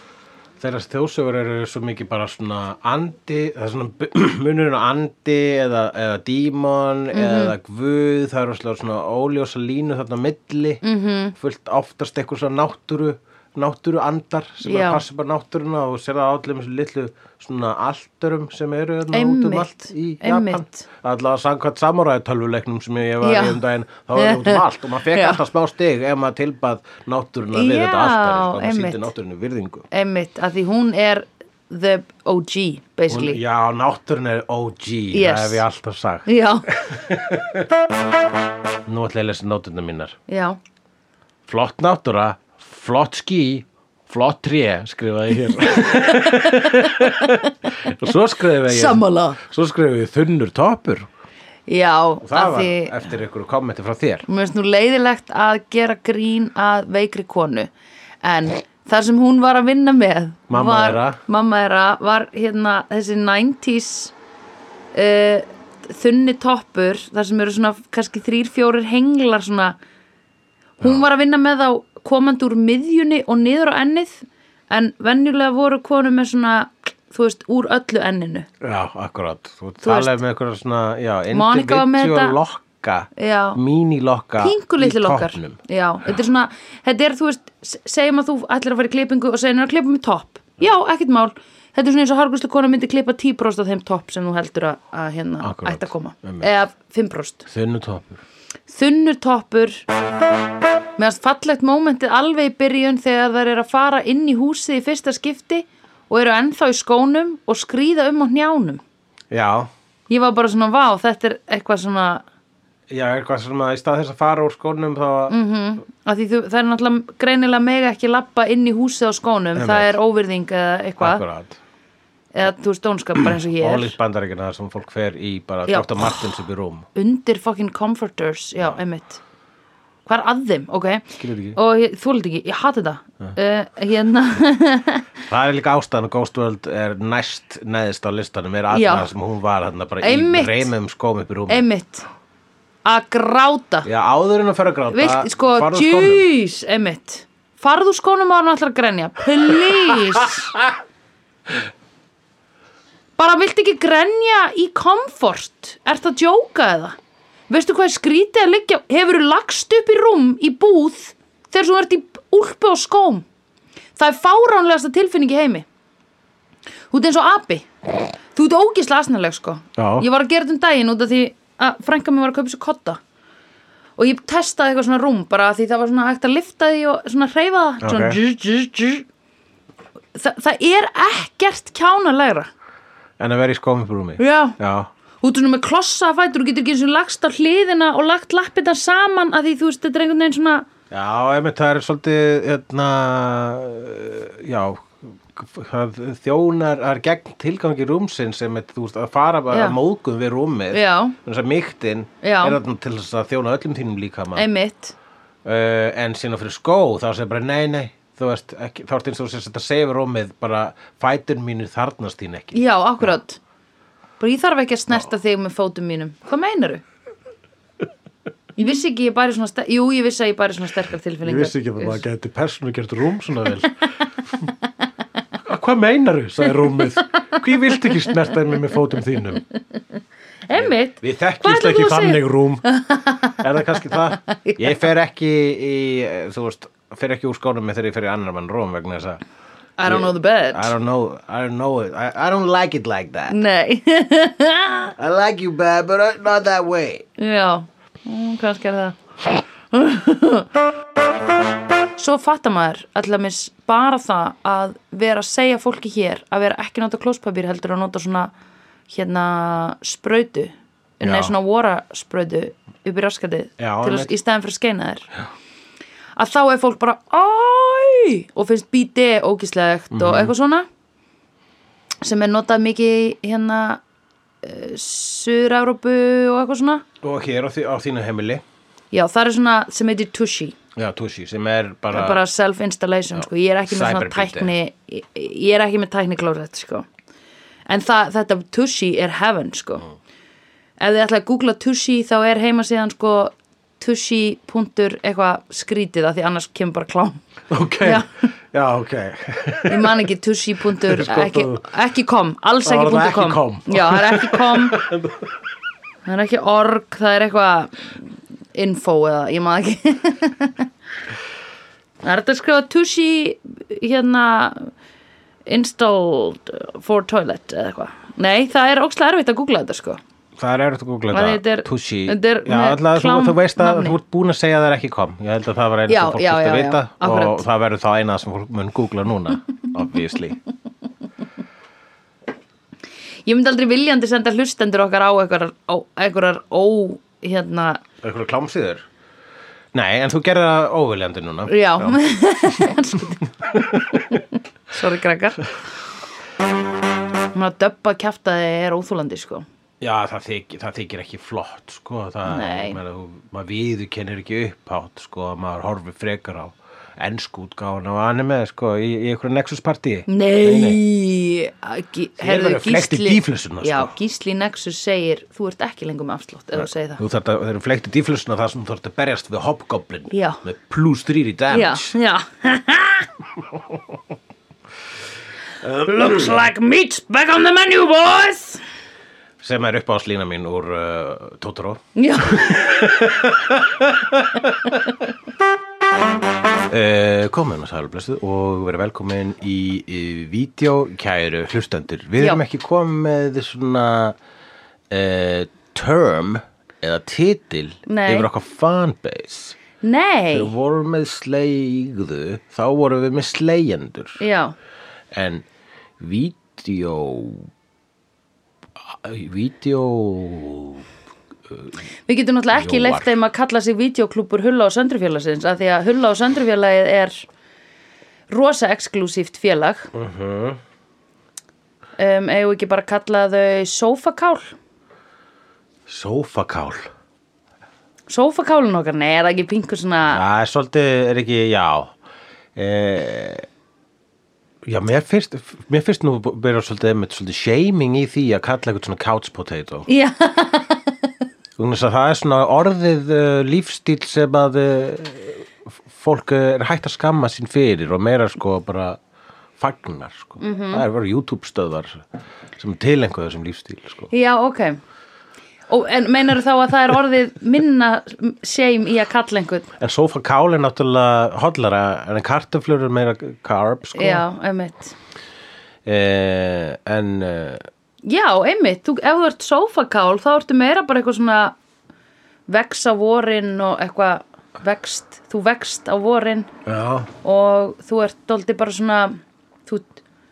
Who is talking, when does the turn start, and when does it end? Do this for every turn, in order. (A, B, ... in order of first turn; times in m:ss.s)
0:00.6-0:10.8 A
0:07.1-0:07.6 B
0:10.8-0:11.3 B
0:11.4-0:29.9 A
0:14.6-0:15.0 B
0:19.1-0:20.8 B
0:23.2-0:23.6 B
0:24.2-0:25.4 B
0:27.5-0:29.1 B
0:29.9-0:33.4 B
0:33.1-0:37.7 A
0:35.1-0:35.6 B
0:36.2-0:36.7 B
0:38.8-0:40.2 A
0:40.3-0:40.6 B
0:41.4-0:51.1 A
0:45.9-0:47.5 B
0:48.6-0:49.4 B
0:51.7-0:53.0 B
0:52.2-0:54.2 A
0:54.3-0:57.7 B
0:58.2-1:04.1 B
1:00.5-1:01.2 A
1:04.9-1:09.8 B
1:10.8-1:18.5 B
1:18.6-1:25.6 A
1:19.8-1:20.2 B
1:21.3-1:22.4 B
1:23.2-1:23.6 B
1:24.4-1:37.5 B
1:35.4-1:36.5 A
1:37.5-1:38.2 A
1:38.7-1:39.8 B
1:41.0-1:48.8 B
1:49.3-1:49.7 A
1:50.1-1:52.2 B
1:52.9-1:55.3 A
1:55.3-2:01.2 B
1:59.5-2:00.0 A
2:01.0-2:01.6 A
2:02.3-2:04.0 B
2:03.4-2:06.9 A
2:05.7-2:06.4 B
2:06.9-2:09.2 B
2:10.0-2:15.1 B
2:11.2-2:11.6 A
2:15.3-2:21.6 A
2:18.7-2:19.1 B
2:20.0-2:20.7 B
2:21.5-2:22.1 B
2:22.8-2:23.9 B
2:23.8-2:26.2 A
2:24.9-2:30.5 B
2:29.7-2:30.3 A
2:33.2-2:37.0 B
2:37.5-2:43.2 B
2:44.0-2:45.6 B
2:46.9-2:53.0 B
2:49.8-2:50.0 A
2:54.0-2:59.0 B
2:57.8-2:58.2 A
3:00.1-3:02.5 B
3:03.2-3:04.9 A
3:04.2-3:04.6 B
3:05.2-3:10.7 B
3:10.9-3:24.5 A
3:19.5-3:19.8 B
3:20.7-3:21.2 B
3:22.2-3:22.6 B
3:24.4-3:24.9 B
3:25.4-3:33.1 A
3:32.5-3:33.4 B
3:34.2-3:36.8 B
3:38.6-3:42.0 B
3:41.2-3:43.8 A
3:45.4-3:49.4 A
3:50.5-3:53.4 B
3:50.5-3:52.6 A
3:53.2-3:59.2 A
3:53.9-3:54.7 B
3:59.8-4:00.7 B
3:59.8-4:03.4 A
4:03.3-4:04.9 B
4:05.0-4:07.0 A
4:07.2-4:10.5 B
4:12.0-4:18.3 B
4:18.9-4:25.1 B
4:21.0-4:21.3 A
4:23.6-4:24.1 A
4:26.2-4:30.7 B
4:29.9-4:30.3 A
4:32.0-4:33.8 B
4:34.4-4:36.8 B
4:37.0-4:38.4 A
4:38.9-4:40.6 B
4:40.8-4:42.2 A
4:41.9-4:46.9 B
4:43.2-4:44.5 A
4:47.7-4:49.9 B
4:50.8-4:57.2 B
4:57.5-5:00.1 A
4:57.8-4:58.2 B
4:59.7-5:04.8 B
5:00.7-5:01.7 A
5:02.6-5:05.3 A
5:06.0-5:08.0 B
5:08.5-5:10.7 B
5:12.0-5:14.7 B
5:15.4-5:20.0 B
5:20.4-5:30.4 A
5:21.1-5:24.0 B
5:25.9-5:27.4 B
5:33.2-5:37.8 B
5:38.0-5:38.8 A
5:39.7-5:42.7 A
5:41.5-5:43.2 B
5:43.5-5:44.0 A
5:43.9-5:45.5 B
5:47.3-5:49.4 B
5:49.8-6:00.8 A
5:52.3-5:52.8 B
6:00.1-6:07.0 B
6:02.2-6:03.9 A
6:06.6-6:11.9 A
6:10.1-6:10.4 B
6:11.5-6:13.1 B
6:15.6-6:18.6 B
6:19.4-6:24.8 A
6:22.0-6:22.9 B
6:26.7-6:34.2 A
6:34.9-6:39.6 A
6:37.9-6:38.3 B
6:39.8-6:40.5 B
6:40.3-6:44.2 A
6:44.2-6:44.5 B
6:45.1-6:45.4 A
6:46.0-6:47.5 A
6:48.9-6:50.8 A
6:52.1-6:57.2 B
6:52.5-6:53.1 A
6:58.3-6:59.9 B
6:59.9-7:00.6 A
7:02.0-7:04.5 B
7:05.9-7:06.9 A
7:08.1-7:10.2 B
7:10.1-7:11.9 A
7:12.6-7:13.4 A
7:14.6-7:19.9 A
7:19.9-7:21.1 B
7:21.6-7:29.0 A
7:29.6-7:32.0 A
7:30.4-7:30.8 B
7:32.6-7:34.1 A
7:34.1-7:34.8 B
7:35.7-7:39.7 B
7:39.8-7:44.2 A
7:43.9-7:44.9 B
7:45.8-7:47.6 A
7:48.0-7:51.6 B
7:52.5-7:56.5 B
7:56.6-7:57.1 A
7:57.2-8:00.0 B